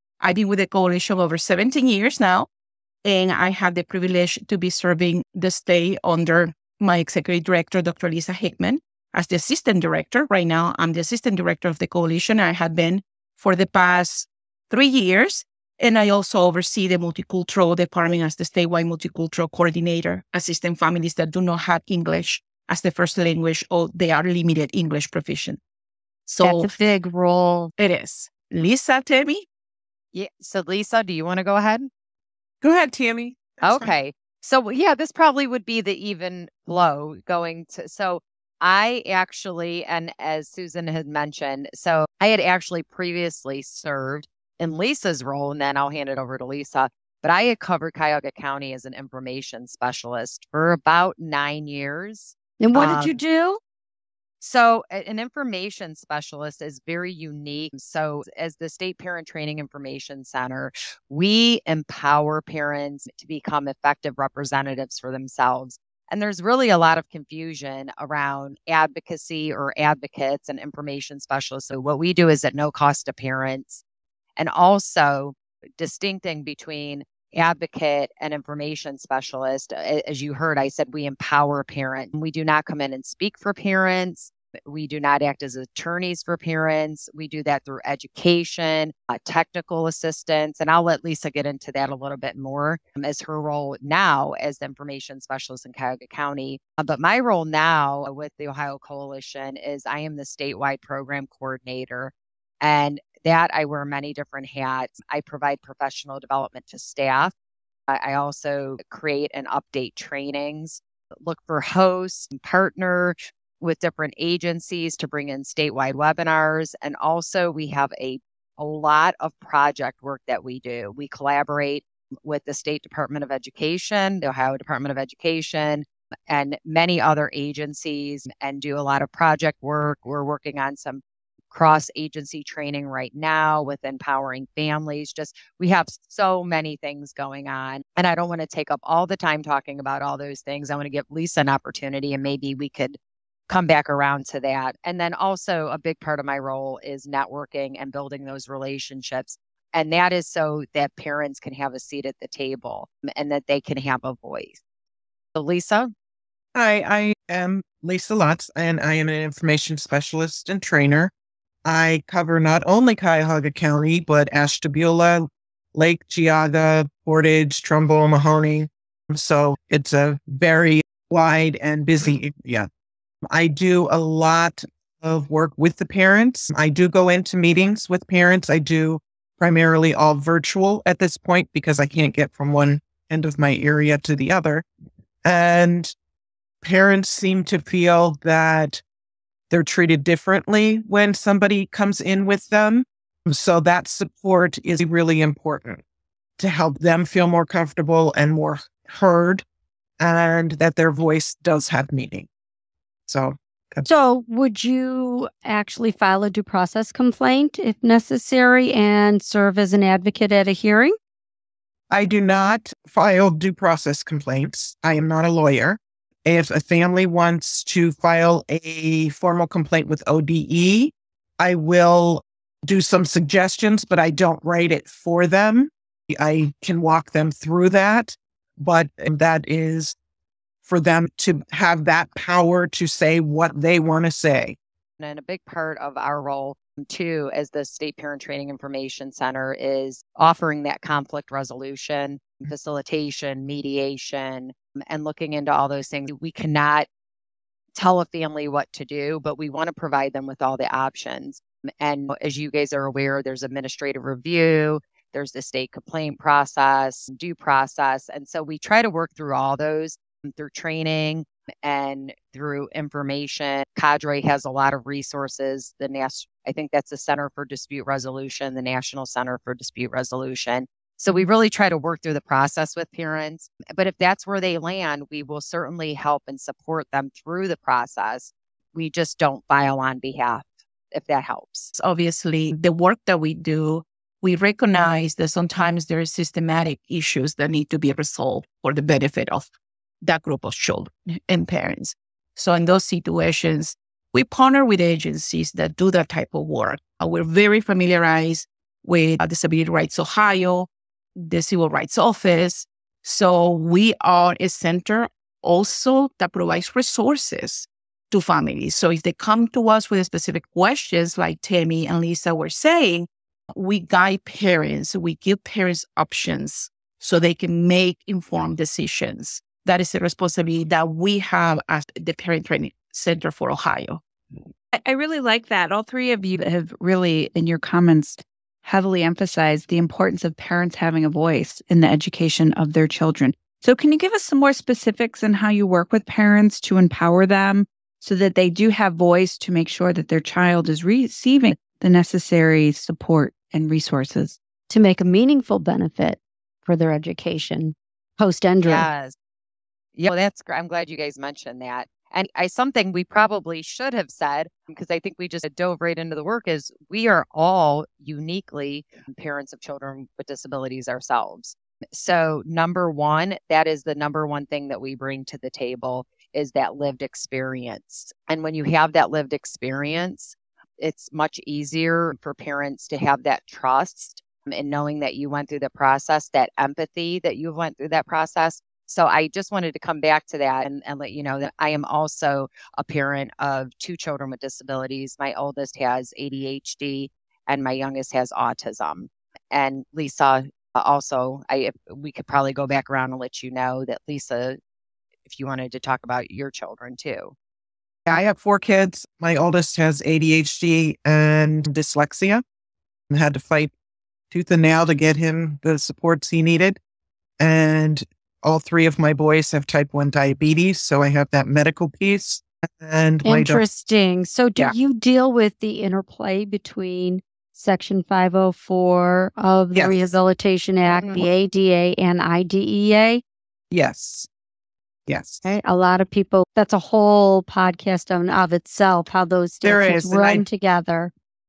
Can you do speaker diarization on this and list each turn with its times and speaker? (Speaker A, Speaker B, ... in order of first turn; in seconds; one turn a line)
Speaker A: 0.2-2.5
Speaker A: 3.0-25.6
Speaker A: 26.2-26.7
Speaker B: 26.4-27.7
Speaker A: 27.8-29.4
Speaker C: 30.1-31.9
Speaker A: 32.6-33.5
Speaker C: 33.6-53.1
Speaker B: 52.6-53.6
Speaker C: 54.4-73.8
Speaker C: 74.4-107.3
Speaker C: 107.9-143.0
Speaker C: 143.5-154.6
Speaker C: 155.3-155.9
Speaker D: 156.5-161.1
Speaker D: 161.6-172.7
Speaker D: 173.3-184.6
Speaker D: 185.2-185.9
Speaker D: 186.6-188.8
Speaker D: 189.5-195.8
Speaker D: 196.4-199.4
Speaker D: 200.0-202.3
Speaker D: 203.1-203.9
Speaker B: 203.8-210.9
Speaker D: 211.9-229.9
Speaker D: 230.6-234.6
Speaker C: 235.0-246.9
Speaker C: 247.7-281.7
Speaker A: 281.8-289.5
Speaker A: 290.0-324.0
Speaker E: 324.7-344.4
Speaker B: 344.7-348.9
Speaker C: 348.6-349.1
Speaker C: 349.9-394.6
Speaker C: 395.2-397.3
Speaker D: 398.1-402.4
Speaker D: 403.1-403.7
Speaker D: 404.3-406.8
Speaker D: 407.4-413.6
Speaker B: 413.2-423.2
Speaker D: 423.7-424.3
Speaker D: 425.1-425.4
Speaker B: 425.4-431.1
Speaker D: 429.6-430.4